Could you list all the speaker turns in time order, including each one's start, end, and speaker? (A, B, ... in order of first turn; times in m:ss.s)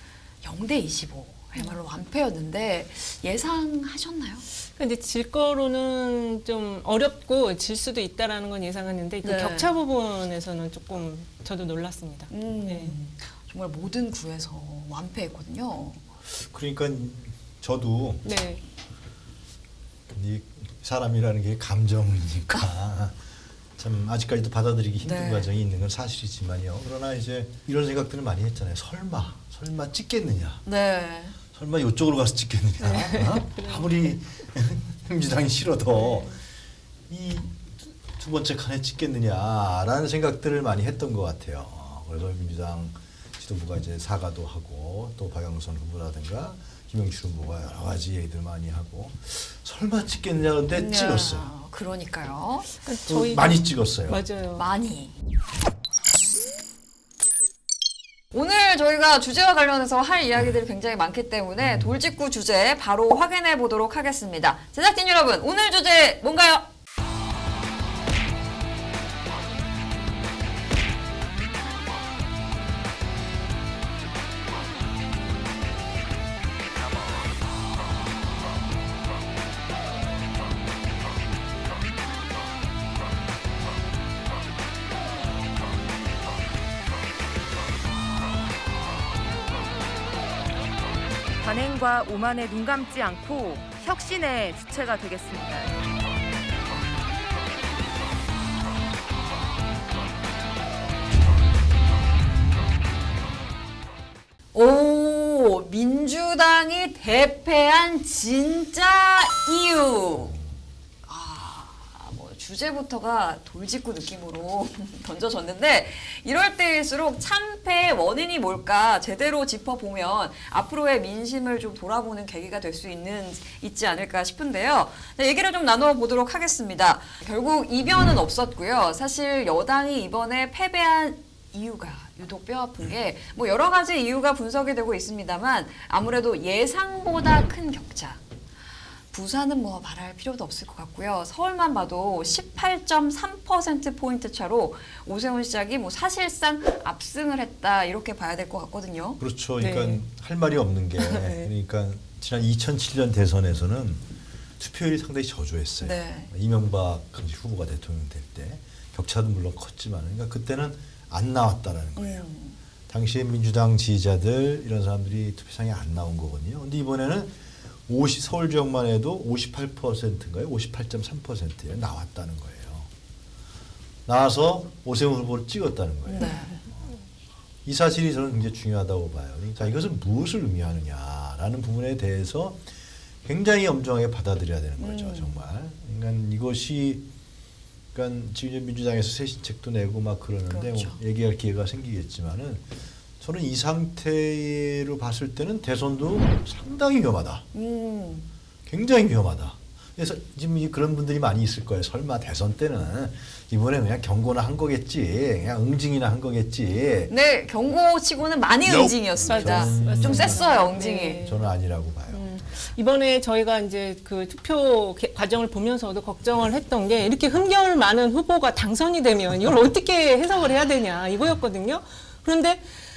0:00.4-0:04.4 A
0:04.8-0:13.0 B
0:09.2-0:09.7 A
0:12.3-0:16.0 A
0:16.4-0:18.2 C
0:18.2-0:18.6 B
0:20.1-0:23.2 C
0:23.8-0:30.7 C
0:25.0-0:25.5 A
0:30.6-0:31.4 A
0:31.5-0:36.4 C
0:32.8-0:33.9 B
0:35.9-0:36.4 B
0:37.1-0:51.5 C
0:50.7-0:52.7 A
0:52.8-0:54.7 B
0:53.1-0:54.2 C
0:54.6-0:55.1 A
0:58.3-1:06.7 A
1:01.6-1:01.9 C
1:31.4-1:35.8 D
1:44.5-1:50.4 A
1:51.1-2:18.2 A
2:19.1-2:29.2 A
2:29.2-2:34.0 C
2:29.6-2:30.0 B
2:31.0-2:31.5 B
2:34.6-2:42.3 C
2:35.8-2:36.3 A
2:42.0-2:42.6 A
2:42.9-2:47.3 C
2:47.9-2:52.9 C
2:54.1-2:56.9 C
2:56.1-2:56.6 A
2:57.6-3:02.6 C
3:03.2-3:07.1 C
3:04.8-3:05.4 A
3:07.9-3:12.6 C
3:10.5-3:11.0 A
3:13.2-3:17.4 C
3:17.5-3:18.3 A
3:18.7-3:27.1 C
3:27.1-3:31.2 A
3:29.2-3:30.4 C
3:29.2-3:31.5 B
3:31.2-3:32.4 C
3:32.1-3:42.6 B